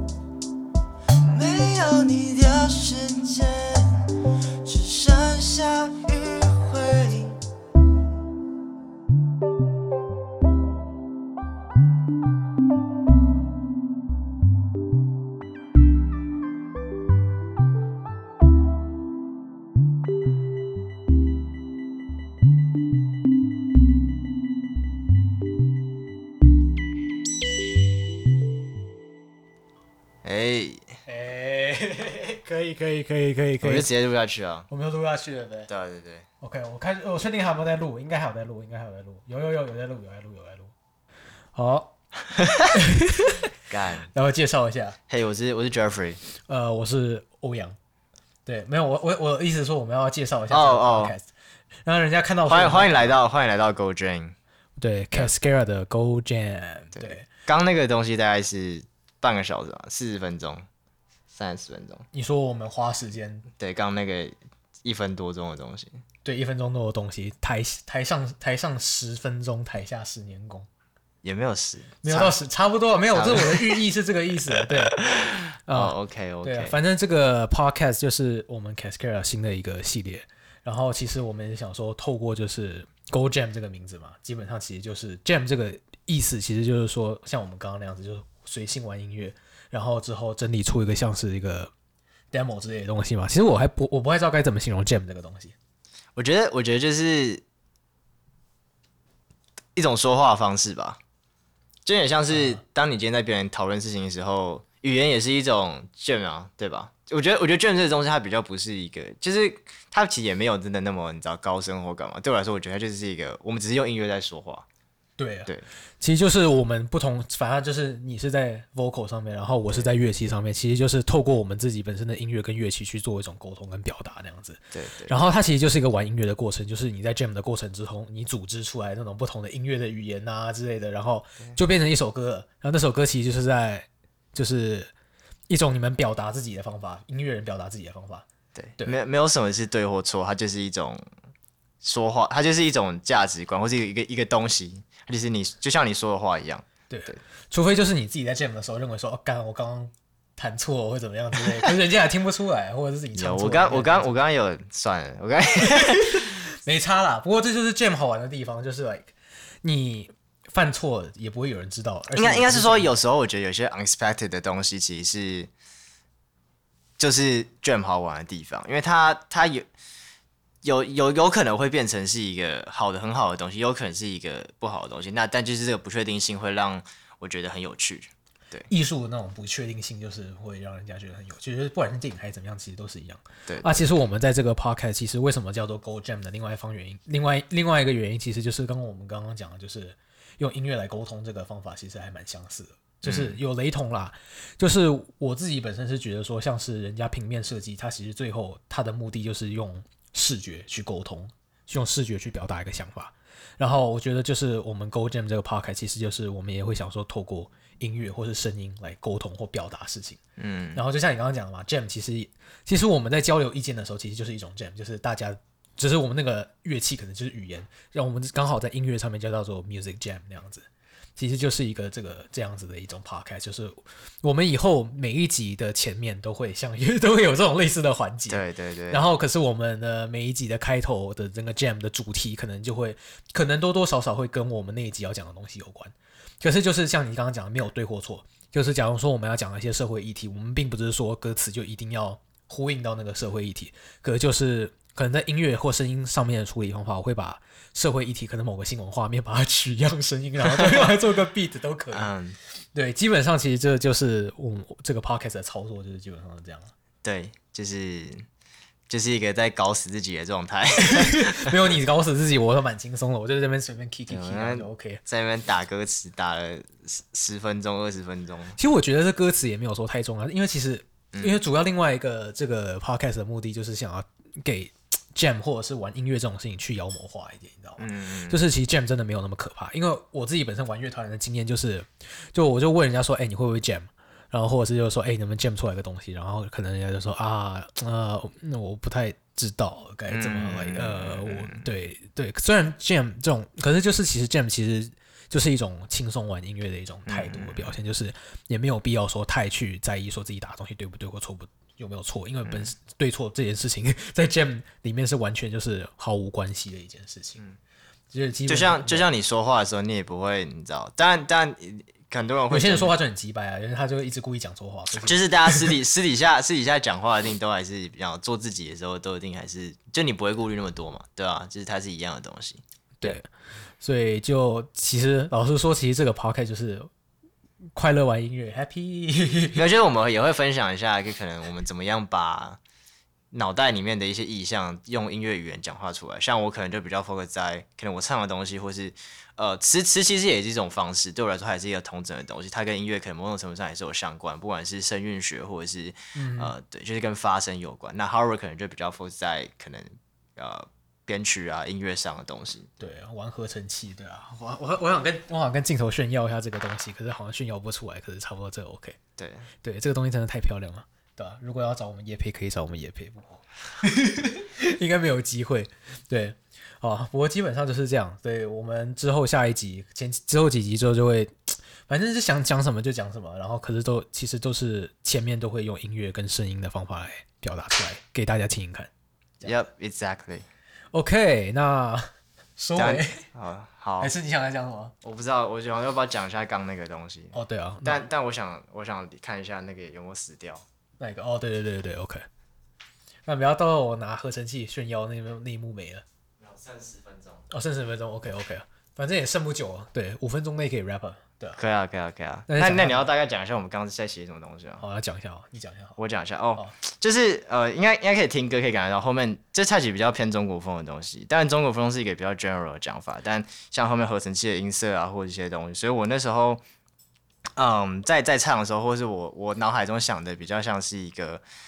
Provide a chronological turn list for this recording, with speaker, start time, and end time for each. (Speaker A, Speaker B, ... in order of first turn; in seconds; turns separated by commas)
Speaker A: 1.2-7.4, Speaker A: 30.2-30.9, Speaker B: 31.1-33.9, Speaker A: 33.6-34.7, Speaker B: 34.7-35.7, Speaker A: 35.7-36.3, Speaker B: 36.4-40.7, Speaker B: 41.5-41.9, Speaker A: 42.4-42.6, Speaker B: 42.7-43.5, Speaker A: 43.7-44.1, Speaker B: 44.1-45.0, Speaker A: 45.1-46.2, Speaker B: 46.4-47.8, Speaker B: 48.5-51.3, Speaker A: 50.5-51.1, Speaker B: 51.8-53.1, Speaker A: 52.5-54.3, Speaker B: 54.8-57.3, Speaker A: 57.0-60.6, Speaker A: 61.3-62.0, Speaker B: 62.1-63.5, Speaker A: 63.6-66.0, Speaker B: 66.2-70.7, Speaker A: 71.2-72.3, Speaker B: 72.0-91.7, Speaker A: 73.1-73.8, Speaker A: 75.0-76.8, Speaker B: 92.3-95.5, Speaker A: 96.2-97.4, Speaker A: 99.8-101.0, Speaker A: 101.8-114.6, Speaker B: 102.3-102.6, Speaker B: 115.2-115.5, Speaker B: 116.0-134.9, Speaker A: 124.7-125.2, Speaker B: 135.5-138.2, Speaker A: 138.5-141.0, Speaker A: 141.8-147.2, Speaker B: 146.9-154.1, Speaker A: 153.1-156.3, Speaker B: 156.5-162.9, Speaker A: 162.1-165.5, Speaker A: 167.0-169.7, Speaker A: 170.6-178.7, Speaker B: 178.7-210.2, Speaker A: 183.4-183.8, Speaker A: 193.0-193.4, Speaker A: 210.4-210.8, Speaker B: 210.7-220.7, Speaker B: 221.2-252.1, Speaker A: 228.3-229.1, Speaker A: 251.9-252.4, Speaker B: 252.7-256.7, Speaker A: 257.0-258.2, Speaker A: 258.9-261.6, Speaker B: 260.8-265.0, Speaker A: 264.1-268.6, Speaker B: 268.6-307.4, Speaker A: 271.1-271.4, Speaker A: 277.8-278.4, Speaker A: 290.1-291.6, Speaker A: 297.1-297.7, Speaker A: 302.4-302.7, Speaker B: 308.1-309.1, Speaker A: 308.5-312.9, Speaker B: 312.5-315.8, Speaker A: 315.0-323.2, Speaker B: 323.0-323.3, Speaker B: 323.8-326.9, Speaker B: 327.7-329.6, Speaker A: 329.5-332.6, Speaker A: 333.3-352.7, Speaker B: 346.1-346.5, Speaker B: 352.8-359.0, Speaker A: 359.2-359.5, Speaker B: 359.6-379.6, Speaker A: 379.4-380.4, Speaker B: 380.9-383.2, Speaker A: 382.8-384.1, Speaker B: 384.0-384.9, Speaker A: 385.0-390.6, Speaker B: 387.3-388.1, Speaker B: 391.0-392.2, Speaker B: 393.2-396.0, Speaker A: 396.4-397.4, Speaker B: 397.5-401.6, Speaker A: 401.6-404.8, Speaker B: 402.5-403.0, Speaker B: 404.8-406.0, Speaker A: 406.0-416.6, Speaker A: 417.6-421.4